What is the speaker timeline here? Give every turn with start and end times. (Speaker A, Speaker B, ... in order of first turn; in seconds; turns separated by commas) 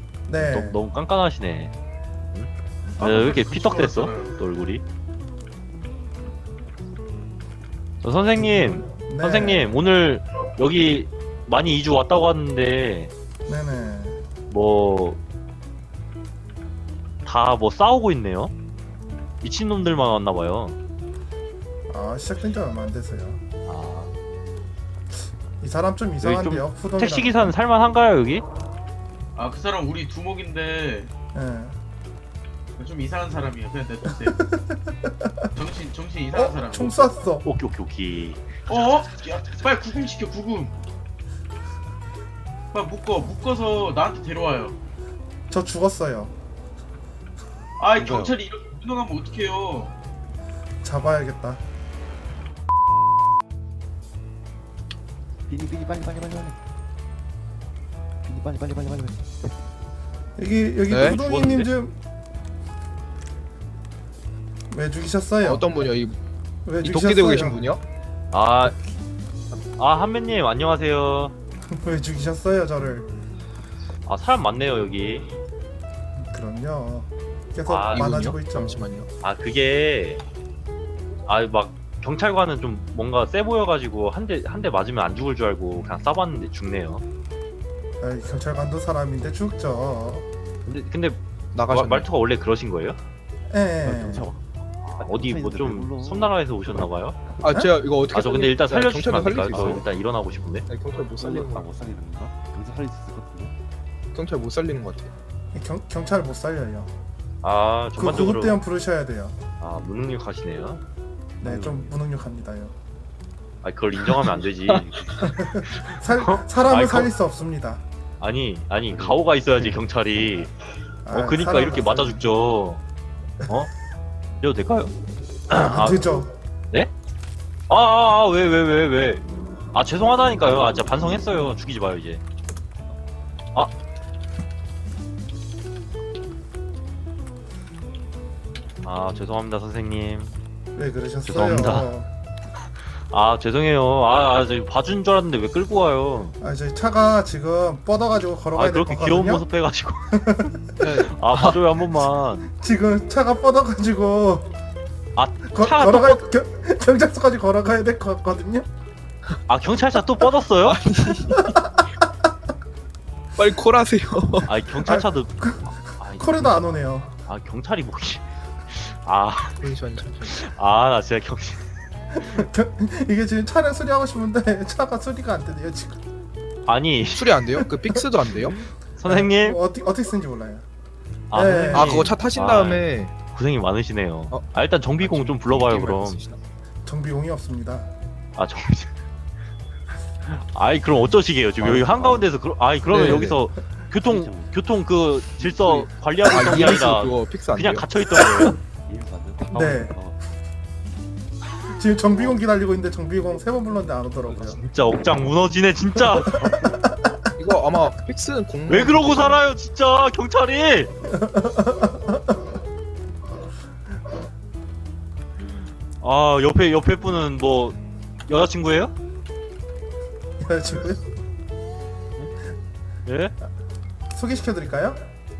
Speaker A: 0.3-0.8, Speaker B: 0.4-1.8, Speaker B: 2.3-4.8, Speaker C: 2.9-4.4, Speaker B: 8.0-13.1, Speaker A: 8.4-9.8, Speaker A: 13.5-14.2, Speaker B: 14.5-15.2, Speaker B: 17.3-18.5, Speaker B: 19.4-20.8, Speaker A: 21.9-23.4, Speaker B: 23.7-24.1, Speaker A: 25.6-27.6, Speaker B: 26.2-28.4, Speaker C: 29.4-31.1, Speaker A: 31.3-31.8, Speaker C: 32.8-34.4, Speaker A: 34.0-35.6, Speaker C: 35.6-37.3, Speaker A: 36.3-37.5, Speaker B: 37.4-38.5, Speaker C: 38.7-40.8, Speaker C: 42.7-44.8, Speaker A: 45.5-46.3, Speaker C: 47.8-49.9, Speaker D: 48.0-48.3, Speaker A: 50.8-51.6, Speaker D: 55.5-56.6, Speaker D: 58.3-59.2, Speaker A: 60.4-62.0, Speaker E: 60.9-61.2, Speaker B: 61.0-61.7, Speaker A: 64.7-65.9, Speaker E: 65.4-66.2, Speaker A: 66.7-67.7, Speaker E: 66.8-67.8, Speaker B: 68.3-68.8, Speaker B: 69.8-71.3, Speaker A: 71.7-73.1, Speaker B: 74.1-75.3, Speaker A: 76.2-78.9, Speaker B: 77.7-78.1, Speaker E: 77.9-79.1, Speaker B: 79.2-80.2, Speaker B: 81.3-87.0, Speaker A: 88.0-90.3, Speaker B: 90.7-93.0, Speaker E: 91.5-92.1, Speaker A: 93.5-94.3, Speaker D: 93.8-96.9, Speaker B: 94.8-97.2, Speaker E: 97.4-99.9, Speaker A: 97.5-97.7, Speaker B: 98.1-100.7, Speaker E: 100.7-101.7, Speaker D: 101.0-103.5, Speaker E: 104.1-105.1, Speaker A: 105.5-106.9, Speaker B: 107.4-108.6, Speaker A: 107.9-109.4, Speaker B: 109.6-110.8, Speaker A: 111.4-112.8, Speaker D: 111.5-111.9, Speaker B: 113.6-115.0, Speaker E: 114.2-114.8, Speaker A: 115.2-117.8, Speaker B: 115.7-117.2, Speaker B: 118.2-120.5, Speaker A: 121.1-122.3, Speaker B: 121.1-122.8, Speaker B: 124.4-124.9, Speaker B: 125.5-126.1, Speaker A: 125.6-126.3, Speaker B: 127.7-132.2, Speaker B: 138.8-140.4, Speaker A: 140.8-142.1, Speaker B: 141.3-141.9, Speaker B: 142.8-146.4, Speaker A: 146.4-149.5, Speaker B: 148.6-150.3, Speaker A: 150.2-150.6, Speaker E: 150.8-151.8, Speaker B: 150.9-152.5, Speaker A: 152.5-154.5, Speaker B: 155.2-156.3, Speaker A: 155.4-158.7, Speaker B: 159.5-160.8, Speaker E: 160.6-161.4, Speaker E: 163.4-164.6, Speaker B: 164.5-169.6, Speaker A: 164.8-167.1, Speaker E: 169.6-170.4, Speaker B: 170.3-171.6, Speaker A: 172.2-176.0, Speaker B: 176.7-177.4, Speaker E: 177.1-178.6, Speaker B: 179.0-179.6, Speaker A: 179.1-180.7, Speaker B: 181.3-186.3, Speaker A: 181.3-182.1, Speaker E: 181.7-183.1, Speaker E: 185.0-186.4, Speaker A: 186.9-187.9, Speaker B: 188.4-188.9, Speaker B: 190.3-198.6, Speaker D: 191.6-192.2, Speaker E: 192.9-193.4, Speaker D: 194.1-194.5, Speaker E: 195.4-198.5, Speaker D: 198.9-200.2, Speaker A: 199.5-200.0, Speaker A: 201.7-204.6, Speaker D: 203.2-204.5, Speaker B: 204.5-206.6, Speaker A: 206.0-207.2, Speaker E: 207.4-209.4, Speaker B: 208.7-210.9, Speaker A: 211.1-212.3, Speaker B: 216.0-218.9, Speaker A: 220.4-221.0, Speaker B: 223.1-223.3, Speaker A: 224.1-225.0